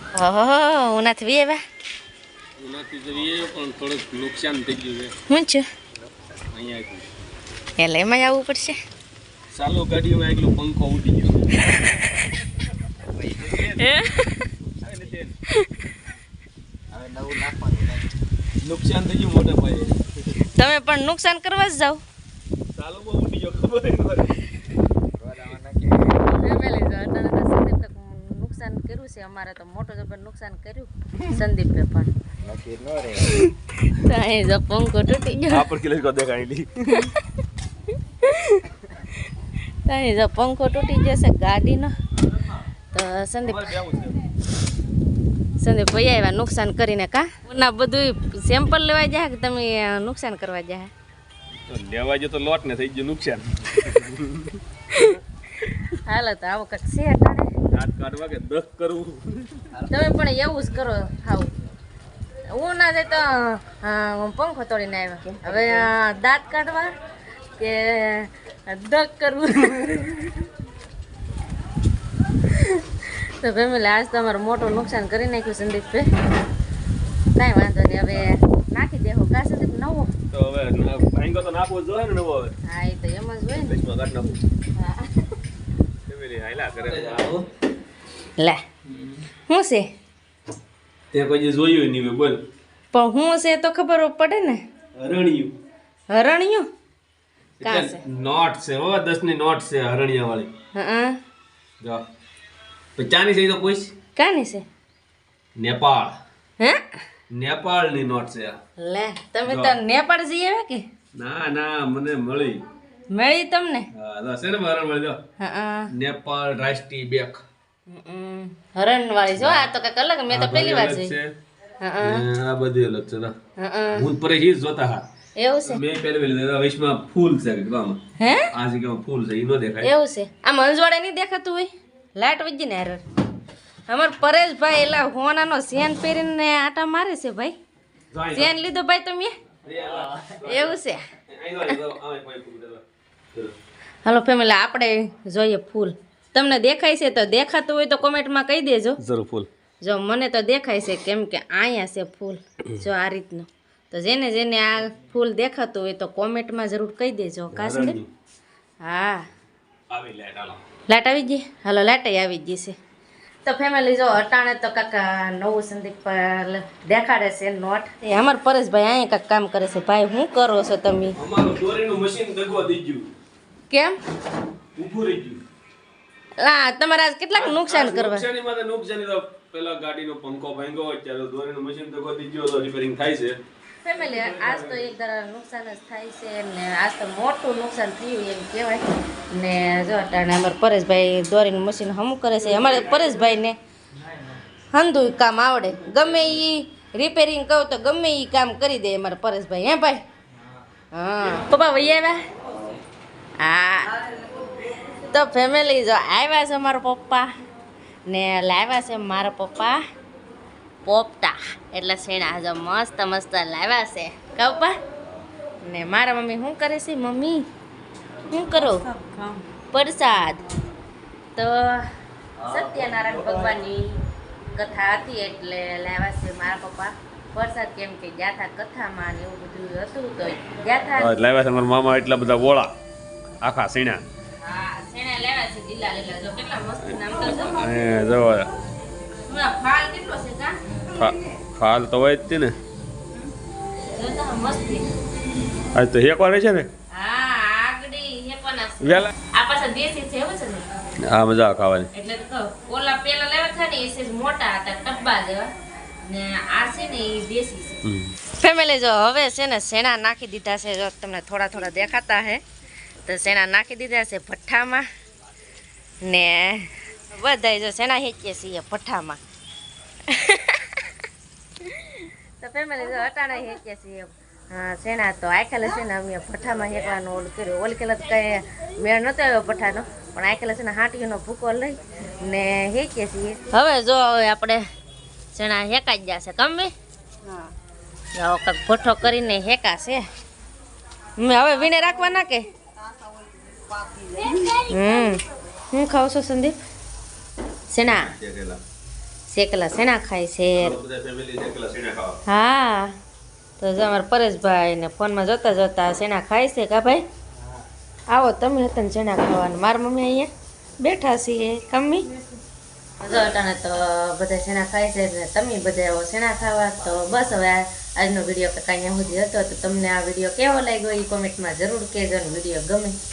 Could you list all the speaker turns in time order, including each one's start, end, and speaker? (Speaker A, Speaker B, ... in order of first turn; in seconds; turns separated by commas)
Speaker A: 0.1-1.6, Speaker B: 2.6-5.1, Speaker A: 5.3-5.7, Speaker B: 6.5-7.1, Speaker A: 7.8-8.8, Speaker B: 9.5-11.5, Speaker A: 11.6-12.1, Speaker C: 13.2-13.4, Speaker B: 13.3-13.9, Speaker A: 13.7-14.3, Speaker B: 14.8-15.3, Speaker C: 16.9-18.1, Speaker B: 18.6-20.0, Speaker A: 20.6-22.0, Speaker B: 22.8-24.4, Speaker C: 25.2-26.1, Speaker A: 26.1-32.1, Speaker C: 32.4-33.3, Speaker A: 33.2-35.6, Speaker B: 35.5-37.1, Speaker A: 36.9-37.2, Speaker A: 38.2-39.1, Speaker A: 39.8-41.9, Speaker A: 42.9-43.7, Speaker B: 43.5-44.2, Speaker A: 45.6-50.9, Speaker B: 51.6-54.6, Speaker A: 55.9-57.5, Speaker B: 57.7-59.6, Speaker A: 59.8-61.5, Speaker A: 62.5-66.9, Speaker A: 67.6-70.5, Speaker A: 72.5-76.1, Speaker A: 77.3-80.1, Speaker B: 80.3-82.5, Speaker A: 82.7-83.8, Speaker B: 83.6-84.4, Speaker A: 84.8-85.1, Speaker B: 86.1-87.5, Speaker A: 89.5-89.9, Speaker B: 91.1-92.4, Speaker A: 92.9-94.6, Speaker B: 95.0-95.6, Speaker A: 96.1-96.7, Speaker B: 97.6-100.5, Speaker A: 97.6-98.0, Speaker A: 100.7-101.2, Speaker B: 103.0-103.9, Speaker A: 104.2-104.6, Speaker B: 105.6-106.2, Speaker A: 106.6-106.9, Speaker B: 107.3-108.6, Speaker A: 108.8-110.8, Speaker B: 109.5-109.8, Speaker B: 111.1-112.6, Speaker A: 113.1-113.9, Speaker B: 113.9-115.2, Speaker A: 115.4-115.9, Speaker B: 115.9-117.4, Speaker A: 117.9-121.1, Speaker B: 119.3-119.7, Speaker B: 120.3-121.3, Speaker A: 121.8-122.2, Speaker B: 122.0-123.3, Speaker A: 123.6-124.1, Speaker B: 123.9-125.0, Speaker A: 125.4-125.8, Speaker B: 125.6-128.0, Speaker A: 128.2-128.5, Speaker B: 128.5-129.9, Speaker A: 129.8-133.0, Speaker A: 133.9-137.5, Speaker B: 138.1-138.5, Speaker A: 138.3-139.3, Speaker B: 139.6-142.8, Speaker A: 140.4-141.0, Speaker A: 144.0-149.0, Speaker B: 149.0-149.5, Speaker A: 149.8-158.0, Speaker B: 157.5-158.1, Speaker A: 158.8-159.2, Speaker B: 159.9-160.6, Speaker A: 160.9-162.8, Speaker A: 163.4-171.2, Speaker B: 171.2-173.1, Speaker A: 173.7-174.0, Speaker B: 174.8-175.4, Speaker A: 176.4-178.2, Speaker B: 177.3-183.4, Speaker A: 183.8-193.6, Speaker B: 183.9-184.9, Speaker A: 194.7-200.0, Speaker A: 200.9-202.2, Speaker A: 203.4-203.9, Speaker D: 204.1-204.6, Speaker A: 204.9-207.3, Speaker A: 208.1-209.8, Speaker A: 210.8-214.8, Speaker A: 215.6-217.4, Speaker A: 218.3-218.9, Speaker D: 218.9-219.4, Speaker A: 219.7-220.4, Speaker A: 221.3-221.9, Speaker A: 222.4-224.0, Speaker A: 224.5-231.1, Speaker B: 231.0-232.7, Speaker B: 233.4-234.0, Speaker A: 234.4-237.6, Speaker B: 236.8-238.5, Speaker A: 239.3-240.6, Speaker B: 240.9-242.6, Speaker A: 243.9-244.8, Speaker B: 245.7-246.7, Speaker A: 246.9-250.7, Speaker B: 248.8-249.1, Speaker B: 251.0-251.9, Speaker A: 251.9-255.5, Speaker A: 256.1-257.8, Speaker B: 257.8-258.1, Speaker A: 258.4-262.4, Speaker A: 263.1-264.8, Speaker A: 266.0-269.2, Speaker A: 270.1-270.9, Speaker A: 271.6-284.6, Speaker A: 285.3-286.7, Speaker D: 287.2-287.5, Speaker A: 288.2-290.0, Speaker A: 291.2-292.4, Speaker D: 291.6-292.2, Speaker D: 292.7-294.7, Speaker A: 294.7-295.2, Speaker A: 295.7-296.6, Speaker A: 297.7-298.1, Speaker B: 297.8-298.6, Speaker A: 299.3-300.8, Speaker B: 300.6-302.2, Speaker A: 302.3-302.9, Speaker A: 303.6-307.0, Speaker A: 308.1-310.3, Speaker A: 310.8-312.1, Speaker A: 313.0-323.0